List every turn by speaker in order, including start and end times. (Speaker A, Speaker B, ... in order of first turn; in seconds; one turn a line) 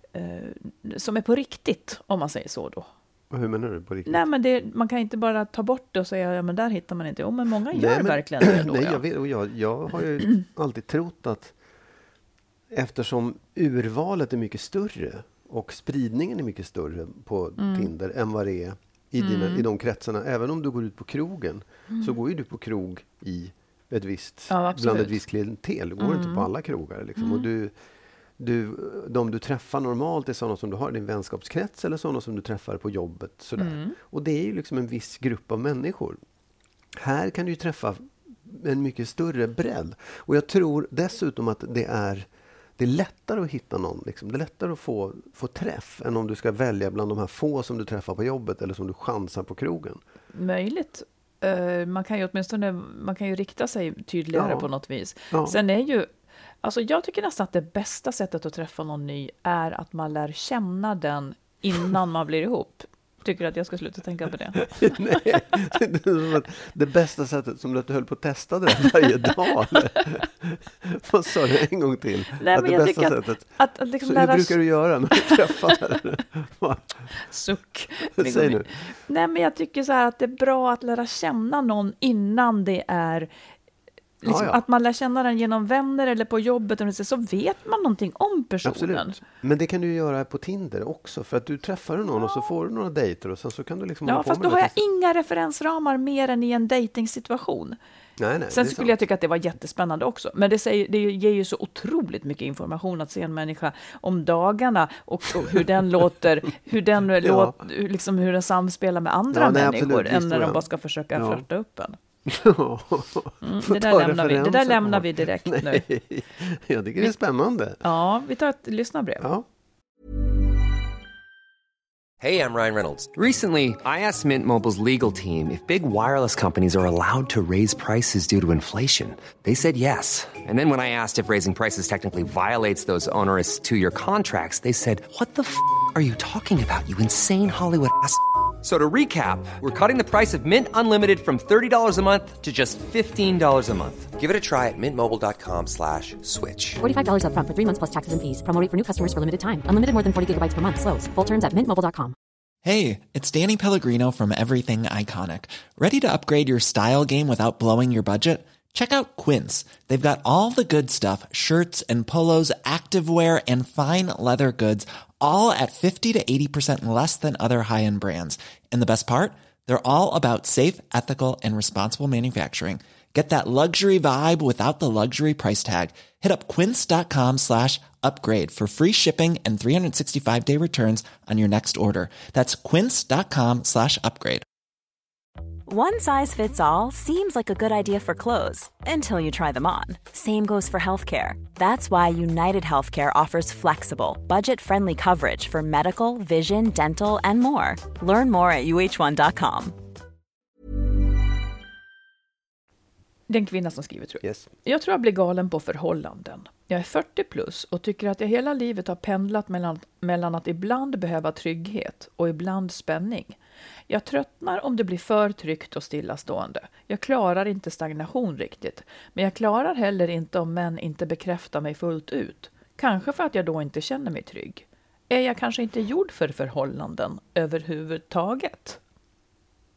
Speaker A: 0.1-2.9
Speaker B: 3.3-4.2
Speaker A: 4.1-9.0
Speaker B: 7.7-11.5
Speaker B: 12.7-27.7
Speaker A: 17.6-17.9
Speaker A: 19.2-19.7
Speaker A: 21.9-22.2
Speaker A: 24.5-25.2
Speaker A: 26.0-26.5
Speaker A: 27.2-27.5
Speaker B: 28.4-36.2
Speaker A: 33.6-34.0
Speaker B: 37.0-42.3
Speaker B: 42.8-50.0
Speaker A: 50.3-56.1
Speaker B: 54.4-54.7
Speaker B: 55.3-55.6
Speaker A: 56.6-65.2
Speaker B: 64.6-73.5
Speaker A: 72.4-74.6
Speaker B: 74.0-77.0
Speaker A: 77.2-83.3
Speaker B: 78.2-78.7
Speaker A: 84.2-89.2
Speaker B: 84.2-84.6
Speaker B: 88.7-94.8
Speaker A: 94.1-97.8
Speaker B: 98.2-99.0
Speaker A: 98.5-112.0
Speaker B: 107.2-107.5
Speaker B: 109.3-110.6
Speaker B: 111.2-111.4
Speaker B: 112.3-117.8
Speaker A: 113.4-115.8
Speaker A: 117.8-119.3
Speaker C: 122.2-146.8
Speaker D: 146.8-152.2
Speaker E: 152.7-184.4
Speaker F: 185.7-199.8
Speaker A: 203.3-213.4
Speaker B: 204.2-204.5
Speaker A: 213.9-228.8